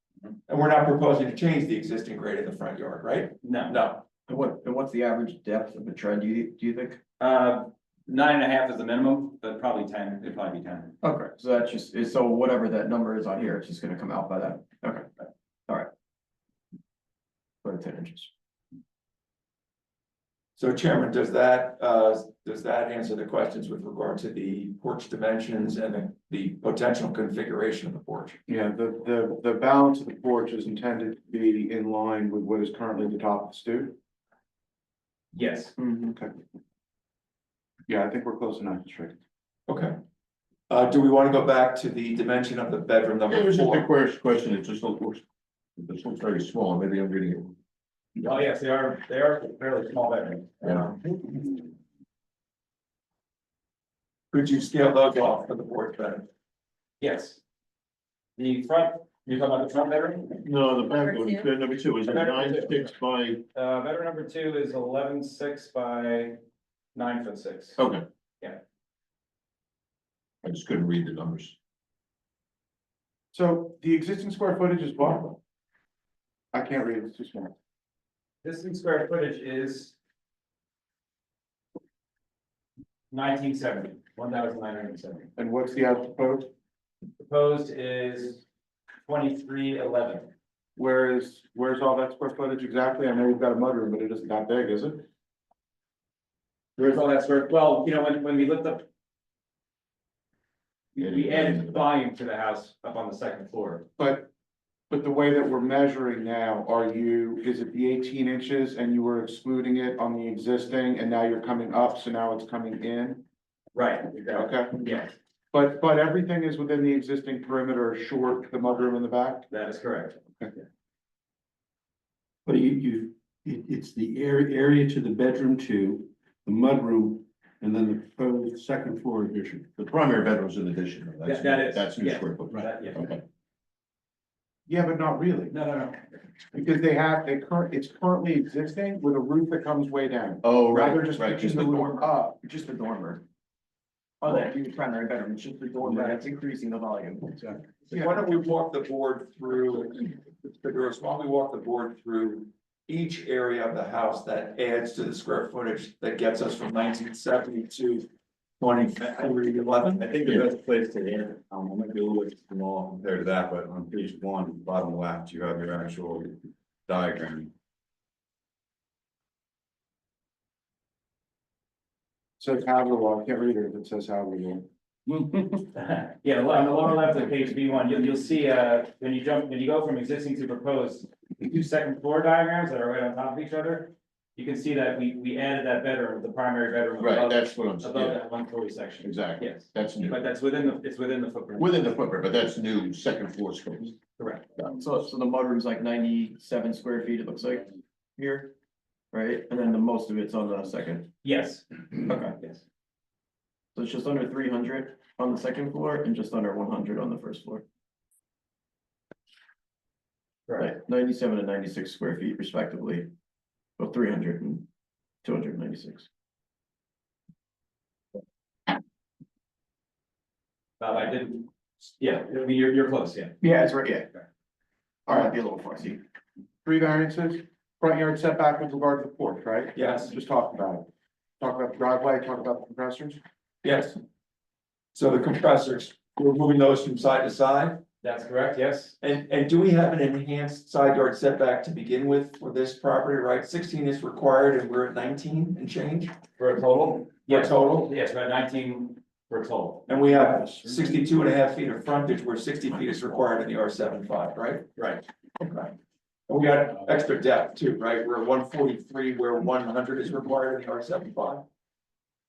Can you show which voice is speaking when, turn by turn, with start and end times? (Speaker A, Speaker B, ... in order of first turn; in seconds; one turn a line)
Speaker A: 0.5-4.0
Speaker B: 3.4-3.7
Speaker C: 4.3-7.0
Speaker B: 7.2-10.9
Speaker C: 11.0-15.1
Speaker C: 17.6-18.3
Speaker A: 20.6-28.4
Speaker D: 28.5-34.0
Speaker B: 35.3-35.7
Speaker D: 35.8-36.3
Speaker D: 37.9-39.2
Speaker A: 39.7-40.0
Speaker A: 40.7-43.9
Speaker E: 43.3-45.2
Speaker E: 45.8-47.5
Speaker B: 48.2-51.0
Speaker A: 54.3-56.3
Speaker B: 57.0-57.4
Speaker B: 58.4-60.3
Speaker E: 60.4-63.4
Speaker B: 62.0-62.9
Speaker B: 63.5-66.4
Speaker B: 66.9-67.8
Speaker E: 67.8-68.0
Speaker E: 70.4-71.5
Speaker D: 73.3-75.4
Speaker D: 76.5-77.5
Speaker B: 78.4-79.9
Speaker B: 83.1-85.3
Speaker D: 85.3-86.5
Speaker B: 87.2-88.4
Speaker B: 89.0-90.3
Speaker D: 90.8-95.0
Speaker B: 96.8-98.8
Speaker B: 100.9-103.8
Speaker E: 101.1-101.8
Speaker D: 104.0-104.3
Speaker D: 104.9-113.2
Speaker B: 113.7-115.1
Speaker D: 114.3-114.8
Speaker D: 115.5-119.5
Speaker B: 119.5-120.2
Speaker F: 122.5-122.7
Speaker G: 122.5-129.7
Speaker E: 129.7-133.2
Speaker B: 131.2-133.1
Speaker D: 134.7-135.5
Speaker B: 135.5-136.1
Speaker D: 136.5-142.4
Speaker E: 140.4-141.6
Speaker C: 141.5-143.2
Speaker C: 144.2-147.7
Speaker A: 147.9-158.1
Speaker A: 158.6-160.0
Speaker F: 160.0-166.3
Speaker F: 166.9-167.5
Speaker D: 172.4-174.7
Speaker B: 175.5-191.8
Speaker E: 187.0-188.2
Speaker E: 189.0-190.2
Speaker E: 191.6-194.0
Speaker B: 194.2-194.6
Speaker C: 194.7-198.5
Speaker C: 199.1-201.1
Speaker B: 201.2-202.6
Speaker C: 202.1-202.3
Speaker C: 203.7-207.6
Speaker B: 210.5-210.7
Speaker C: 210.6-213.1
Speaker C: 213.8-214.7
Speaker C: 215.2-216.1
Speaker B: 220.8-223.3
Speaker C: 223.4-224.1
Speaker C: 225.1-226.0
Speaker D: 225.1-225.3
Speaker D: 226.6-230.9
Speaker A: 229.8-230.1
Speaker D: 231.4-233.2
Speaker A: 233.6-234.0
Speaker A: 234.9-237.8
Speaker B: 238.0-238.9
Speaker A: 239.0-246.1
Speaker B: 246.4-249.9
Speaker A: 247.3-247.9
Speaker A: 249.9-254.7
Speaker B: 254.8-255.0
Speaker A: 255.4-255.7
Speaker A: 256.3-261.4